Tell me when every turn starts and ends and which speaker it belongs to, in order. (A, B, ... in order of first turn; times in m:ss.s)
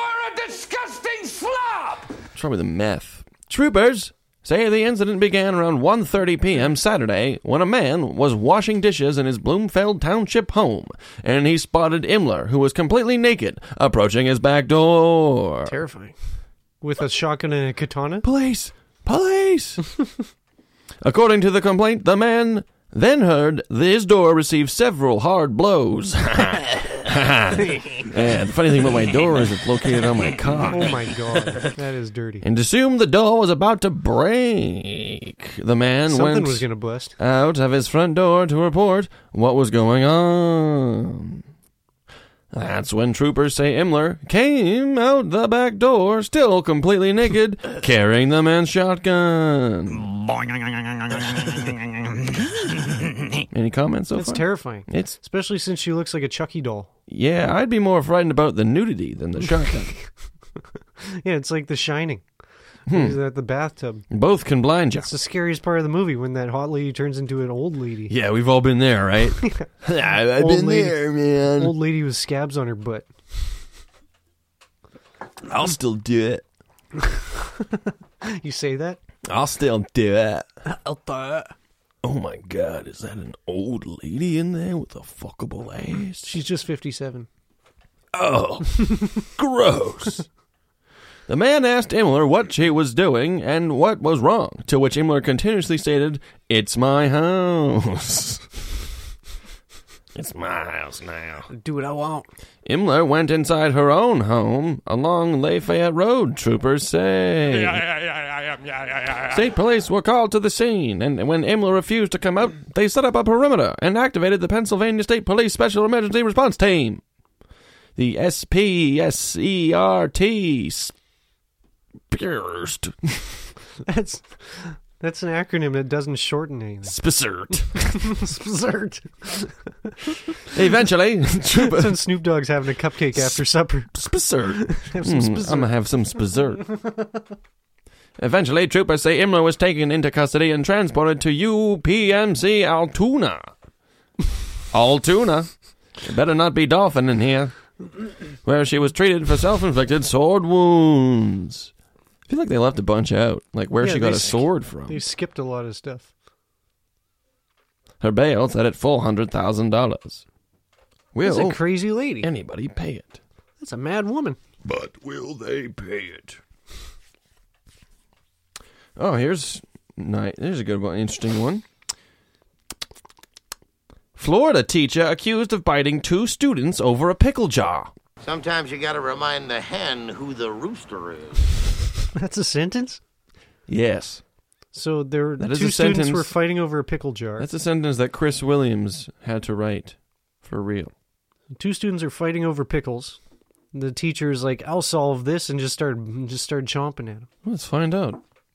0:02.3-0:15.7 A
0:15.6-0:16.1 B
0:16.8-0:18.2 B
0:18.2-0:19.8 A
0:21.0-0:31.0 A
0:30.7-0:32.4 B
0:32.4-0:36.6 A
0:36.1-0:37.2 B
0:37.2-0:41.4 A
0:42.5-0:50.1 A
0:53.5-0:55.2 A
0:54.2-0:56.9 B
0:57.1-0:59.9 A
1:01.2-1:02.2 B
1:02.9-1:03.2 A
1:02.9-1:04.0 B
1:04.1-1:05.1 A
1:05.0-1:08.1 B
1:08.1-1:11.7 A
1:10.3-1:13.1 B
1:15.4-1:16.4 A
1:17.0-1:19.0 B
1:19.2-1:20.5 A
1:20.6-1:21.5 B
1:22.0-1:26.3 A
1:26.2-1:27.3 B
1:28.1-1:30.3 A
1:31.3-1:38.6 A
1:40.1-1:41.5 A
1:41.5-1:42.3 B
1:42.6-1:47.9 A
1:49.1-1:57.0 A
1:58.0-2:00.9 A
2:02.1-2:03.4 A
2:03.9-2:07.0 B
2:06.8-2:07.8 A
2:08.0-2:09.9 B
2:10.5-2:12.0 A
2:11.6-2:15.7 B
2:13.1-2:13.4 A
2:13.9-2:16.7 A
2:18.2-2:23.5 A
2:24.7-2:25.5 A
2:26.0-2:27.5 A
2:28.4-2:31.7 A
2:32.3-2:35.0 A
2:33.8-2:36.1 B
2:38.0-2:40.2 A
2:41.1-2:43.2 A
2:41.2-2:42.3 B
2:43.6-2:44.4 B
2:44.6-2:46.4 A
2:49.0-2:51.6 A
2:54.2-2:57.9 A
2:58.2-3:01.4 C
3:02.1-3:03.0 B
3:03.7-3:04.2 A
3:04.7-3:07.5 B
3:05.4-3:06.3 A
3:07.4-3:10.9 A
3:11.6-3:13.2 B
3:13.7-3:17.3 B
3:17.4-3:18.2 A